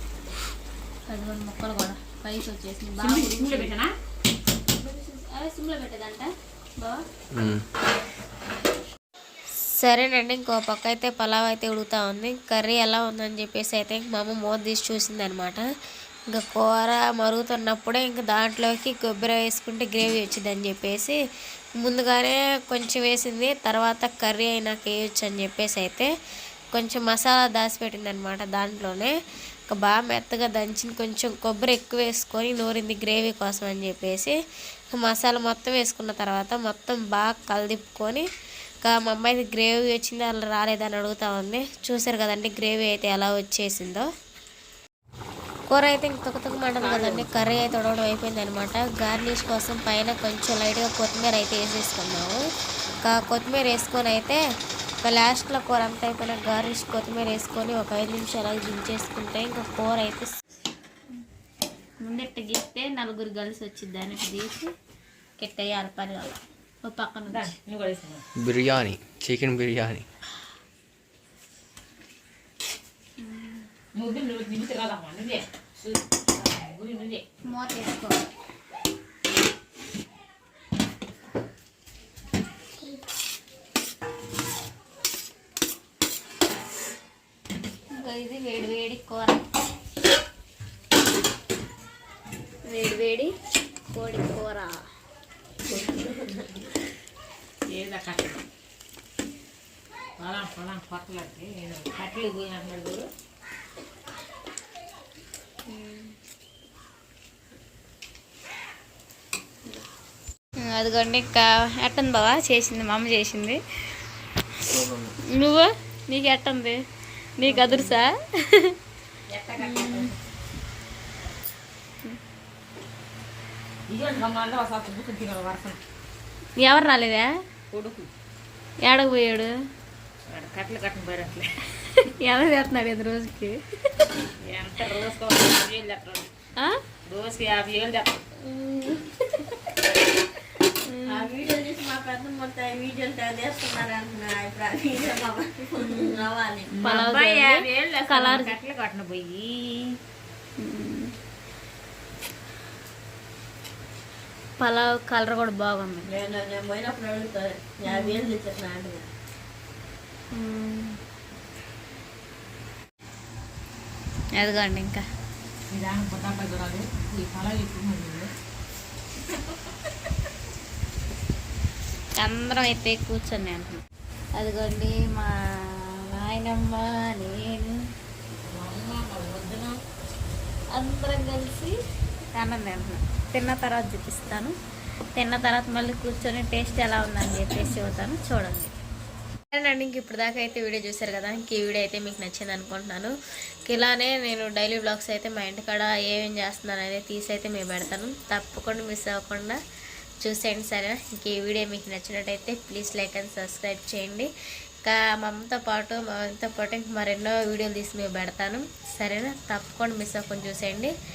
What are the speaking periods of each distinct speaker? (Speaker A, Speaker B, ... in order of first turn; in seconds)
Speaker A: 1.1-3.8, 4.7-7.0, 9.7-15.6, 16.3-21.2, 21.8-26.1, 26.7-29.1, 29.7-34.3, 34.9-38.2, 38.8-44.1, 45.7-52.4, 53.1-54.4, 55.0-60.3, 62.0-64.7, 65.4-67.5, 73.2-73.7, 77.5-78.2, 87.9-89.4, 92.7-93.3, 93.9-94.8, 105.7-106.1, 110.7-113.6, 115.3-116.8, 117.4-118.8, 119.6-120.1, 126.6-127.3, 128.8-129.5, 132.0-133.6, 138.4-139.6, 140.7-141.3, 145.8-146.2, 146.8-148.6, 150.6-151.1, 154.6-156.1, 157.9-158.2, 160.3-161.0, 164.4-165.0, 172.2-173.8, 174.4-177.7, 180.7-181.8, 182.3-184.5, 185.2-188.7, 189.5-193.1, 193.7-199.6, 200.2-204.3, 204.8-210.9
Speaker B: 3.0-3.9, 46.5-47.3, 67.3-68.2, 74.0-77.2, 97.7-98.4, 100.2-103.1, 117.5-117.9, 119.3-120.2, 123.9-125.8, 127.7-128.1, 130.3-131.5, 134.4-136.3, 137.1-138.1, 146.7-150.0, 165.7-168.3, 178.5-179.8
Speaker C: 7.3-7.6, 68.4-70.0, 114.6-115.1
Speaker D: 95.7-96.7, 141.1-146.7, 156.1-159.1